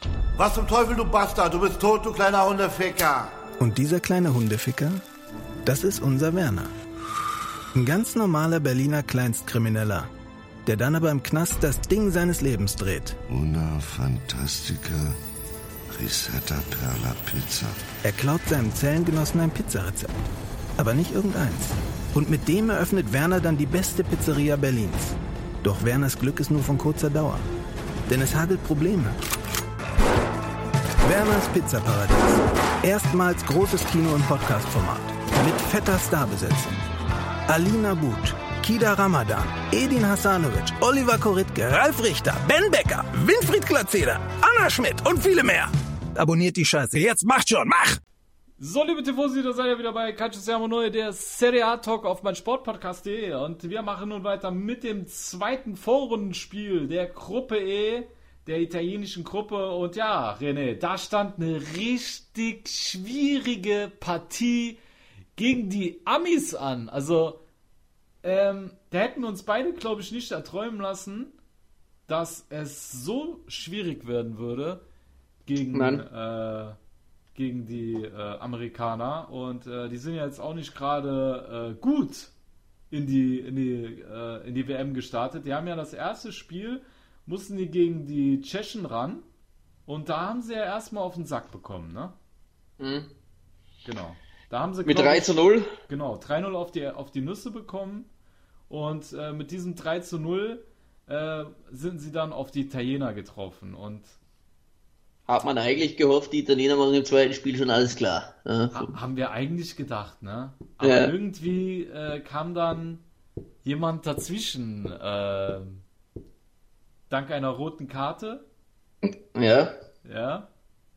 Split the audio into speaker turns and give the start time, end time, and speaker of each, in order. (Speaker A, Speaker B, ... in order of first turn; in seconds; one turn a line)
Speaker A: 0.4-3.4
Speaker B: 3.6-5.0
Speaker B: 5.7-6.7
Speaker B: 7.7-10.1
Speaker B: 10.7-13.2
Speaker C: 13.3-15.2
Speaker C: 15.9-17.8
Speaker B: 18.0-20.1
Speaker B: 20.8-27.4
Speaker B: 28.1-29.2
Speaker B: 31.0-36.8
Speaker B: 37.5-48.0
Speaker D: 48.6-64.8
Speaker D: 65.4-67.4
Speaker D: 68.2-71.3
Speaker D: 72.1-74.8
Speaker D: 75.5-76.8
Speaker E: 75.7-76.0
Speaker D: 77.3-82.3
Speaker D: 82.9-89.2
Speaker D: 89.9-92.1
Speaker E: 92.8-93.1
Speaker D: 93.8-98.1
Speaker E: 94.8-95.7
Speaker D: 98.7-104.2
Speaker E: 105.3-109.0
Speaker D: 108.7-113.0
Speaker E: 110.8-111.1
Speaker D: 113.6-115.8
Speaker D: 117.1-118.4
Speaker E: 119.0-119.8
Speaker D: 120.0-120.5